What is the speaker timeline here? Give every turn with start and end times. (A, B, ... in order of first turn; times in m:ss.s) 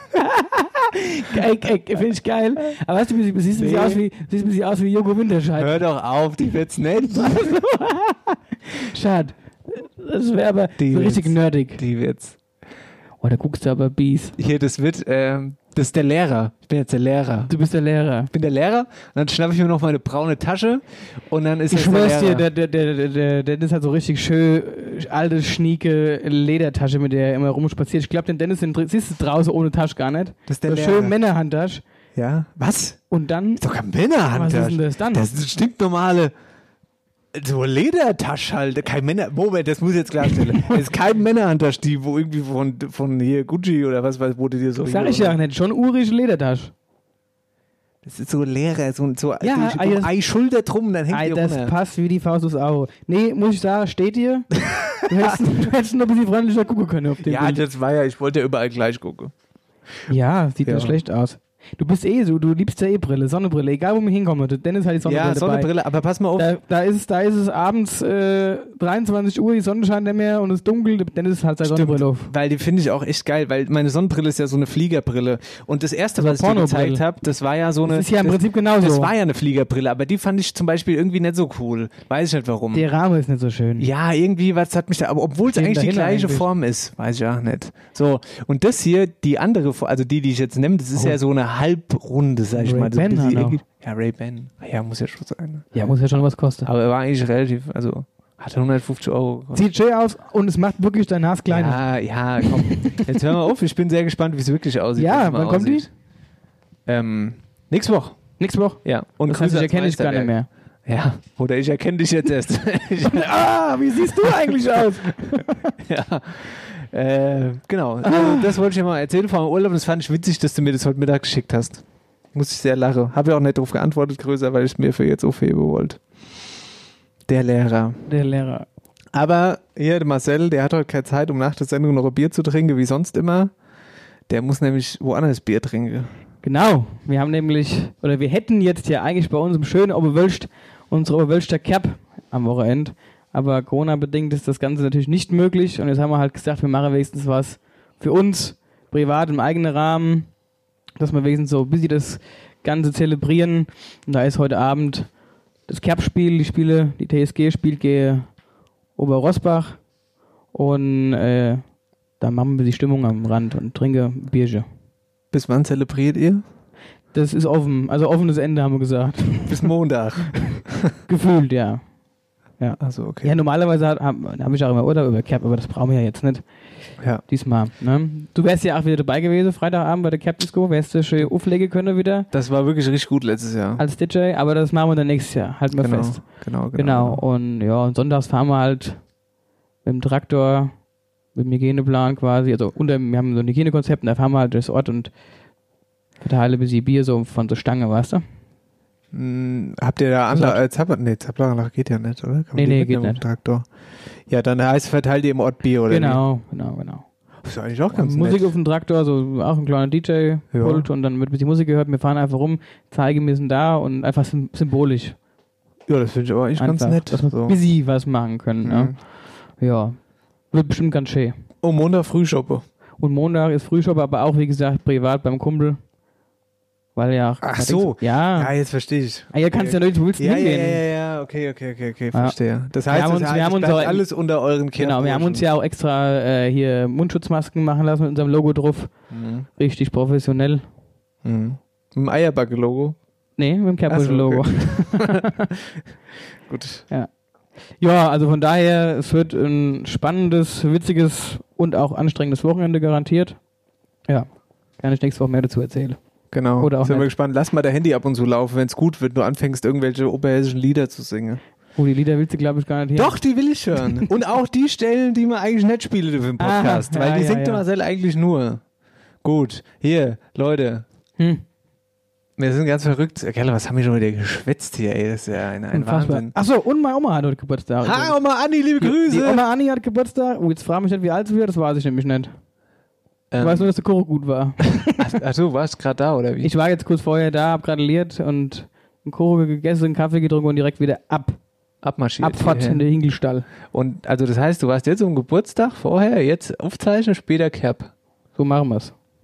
0:00.1-0:05.8 A
0:03.5-0:04.0 B
0:05.6-0:07.5 B
0:07.1-0:11.8 A
0:10.8-0:12.4 B
0:13.2-0:14.3 A
0:14.4-0:17.5 B
0:17.4-0:18.3 A
0:18.3-0:22.4 B
0:21.7-0:31.8 A
0:30.5-0:31.2 B
0:32.1-0:33.0 B
0:33.1-0:33.6 A
0:33.6-0:36.3 B
0:34.3-0:35.3 A
0:37.3-0:45.4 B
0:44.8-0:46.7 A
0:48.0-0:51.7 B
0:49.4-0:50.1 A
0:51.1-0:54.5 A
0:54.7-0:55.5 B
0:55.0-0:57.6 A
0:57.2-0:59.3 B
1:00.1-1:05.7 A
1:00.6-1:01.0 B
1:05.0-1:06.5 B
1:06.4-1:12.3 A
1:11.6-1:22.9 B
1:16.2-1:17.0 A
1:17.8-1:19.1 A
1:22.7-1:23.9 A
1:23.8-1:35.8 B
1:25.5-1:26.5 A
1:32.6-1:33.6 A
1:35.7-1:36.7 A
1:36.6-1:39.7 B
1:39.5-1:41.8 A
1:41.5-1:45.9 B
1:42.4-1:43.2 A
1:45.0-1:45.9 A
1:46.8-1:48.3 B
1:48.4-1:50.5 A
1:48.8-1:53.3 B
1:53.0-1:55.7 A
1:54.2-2:01.8 B
1:58.0-1:58.5 A
2:02.3-2:06.0 B
2:07.3-2:08.0 B
2:08.1-2:08.6 A
2:09.1-2:13.5 B
2:14.3-2:16.1 B
2:16.4-2:30.3 A
2:31.0-2:35.1 A
2:35.7-2:38.3 A
2:39.0-2:39.8 A
2:40.5-2:41.6 A
2:42.2-2:44.6 A
2:45.3-2:46.4 B
2:47.1-2:49.7 A
2:49.5-2:50.9 B
2:50.6-2:51.8 A
2:52.6-2:56.4 A
2:52.8-2:53.4 B
2:57.2-3:02.3 A
3:02.3-3:03.8 B
3:03.8-3:09.0 A
3:05.8-3:07.2 B
3:09.8-3:10.8 A
3:11.3-3:15.1 A
3:16.2-3:18.2 A
3:19.1-3:23.7 B
3:20.3-3:20.6 A
3:22.5-3:23.2 A
3:24.3-3:26.2 B
3:25.9-3:27.0 A
3:27.4-3:28.5 B
3:27.9-3:35.2 A
3:30.5-3:30.9 B
3:35.9-3:37.6 B
3:36.6-3:41.3 A
3:38.6-3:39.0 B
3:41.6-3:42.6 B
3:43.0-3:45.8 A
3:47.0-3:48.5 A
3:47.4-3:55.4 B
3:49.3-3:50.8 A
3:52.1-3:54.0 A
3:54.8-3:58.9 A
3:59.1-3:59.5 B
3:59.6-4:00.6 A
4:01.2-4:03.0 B
4:03.4-4:05.3 A
4:03.9-4:05.6 B
4:06.5-4:06.8 B
4:07.8-4:13.4 A
4:14.1-4:16.0 A
4:16.3-4:21.4 B
4:16.6-4:17.1 A
4:21.8-4:23.2 A
4:22.9-4:28.6 B
4:23.8-4:24.1 A
4:26.4-4:27.6 A
4:29.2-4:30.8 B
4:31.2-4:31.4 A
4:32.4-4:36.3 B
4:35.7-4:38.2 A
4:37.8-4:39.4 B
4:38.8-4:42.3 A
4:43.3-4:43.7 B
4:43.4-4:45.0 A
4:44.9-4:46.5 B
4:46.4-4:51.4 A
4:51.8-4:52.9 B
4:52.2-4:53.5 A
4:53.6-4:57.9 B
4:58.4-4:58.9 A